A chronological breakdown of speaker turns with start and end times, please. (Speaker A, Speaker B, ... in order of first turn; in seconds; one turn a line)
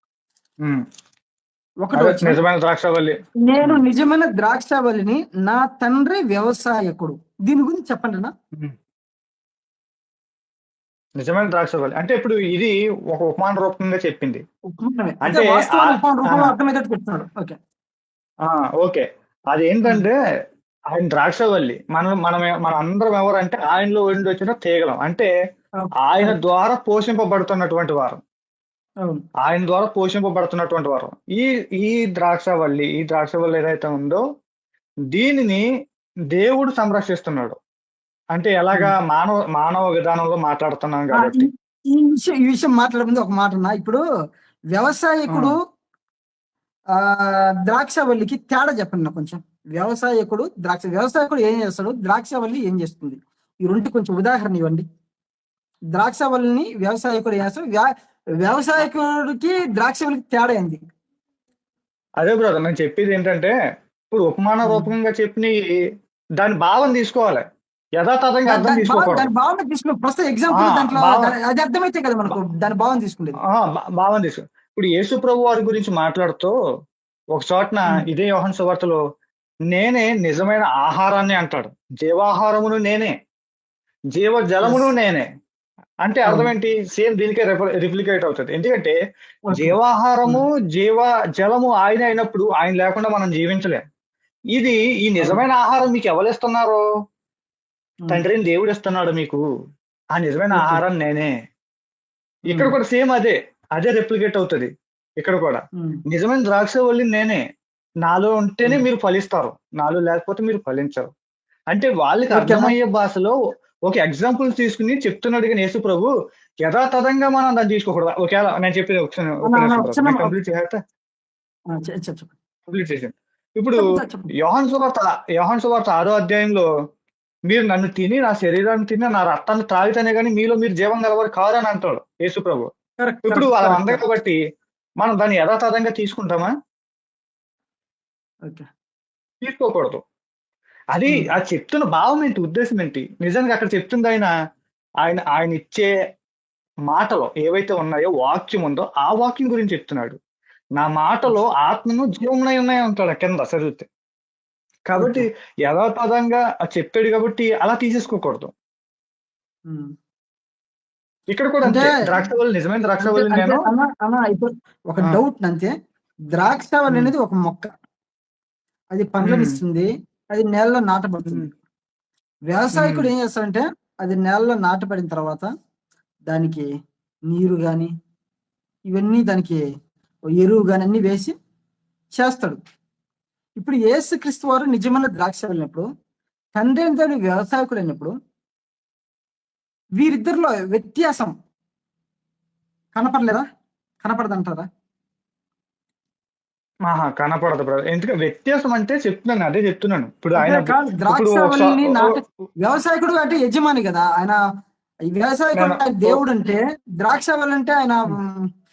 Speaker A: 1.8-2.4
Speaker B: 1.9-3.8
Speaker A: 3.5-8.3
Speaker B: 11.2-14.4
Speaker A: 14.8-17.6
Speaker B: 15.2-16.5
Speaker B: 18.5-20.1
Speaker B: 20.9-25.3
Speaker A: 25.8-26.4
Speaker B: 26.0-28.2
Speaker B: 29.4-34.2
Speaker B: 35.1-35.6
Speaker B: 36.3-37.5
Speaker B: 38.3-41.5
Speaker A: 41.1-44.0
Speaker A: 44.7-45.5
Speaker A: 47.1-54.8
Speaker A: 55.9-57.9
Speaker A: 58.4-60.8
Speaker B: 62.2-63.5
Speaker B: 64.1-65.7
Speaker A: 64.6-64.9
Speaker B: 66.4-67.4
Speaker B: 68.0-69.3
Speaker A: 68.5-73.4
Speaker B: 70.5-71.3
Speaker B: 73.5-76.5
Speaker B: 77.3-79.0
Speaker B: 79.7-83.1
Speaker B: 84.1-85.2
Speaker A: 84.6-84.9
Speaker B: 86.0-88.9
Speaker A: 86.2-86.5
Speaker A: 89.5-90.4
Speaker B: 89.5-93.8
Speaker B: 94.5-96.8
Speaker B: 98.1-99.4
Speaker B: 100.1-101.3
Speaker A: 100.5-100.8
Speaker B: 102.5-107.4
Speaker B: 108.0-111.1
Speaker B: 111.7-113.3
Speaker A: 112.3-112.7
Speaker B: 113.9-116.1
Speaker B: 116.6-120.8
Speaker A: 119.5-120.3
Speaker A: 121.7-122.3
Speaker B: 122.7-123.8
Speaker A: 123.8-124.3
Speaker B: 124.4-126.7
Speaker B: 127.5-132.7
Speaker A: 133.0-134.1
Speaker B: 133.2-134.4
Speaker B: 135.0-136.5
Speaker B: 139.4-140.0
Speaker B: 140.9-144.3
Speaker B: 145.0-145.9
Speaker B: 146.9-150.2
Speaker B: 150.8-153.9
Speaker B: 154.9-158.5
Speaker A: 155.0-155.2
Speaker B: 161.3-163.6
Speaker A: 161.6-162.0
Speaker A: 163.0-165.7
Speaker A: 166.3-167.7
Speaker A: 168.9-171.5
Speaker B: 169.2-169.5
Speaker A: 172.5-175.5
Speaker B: 172.7-173.1
Speaker A: 176.3-176.7
Speaker A: 177.3-177.9
Speaker A: 178.9-179.6
Speaker A: 180.3-181.3
Speaker A: 182.1-182.6
Speaker A: 183.6-185.8
Speaker A: 186.6-188.1
Speaker A: 190.0-191.3
Speaker A: 192.9-193.4
Speaker A: 194.0-194.7
Speaker B: 196.9-202.2
Speaker A: 200.4-204.4
Speaker A: 205.1-208.4
Speaker B: 205.6-206.2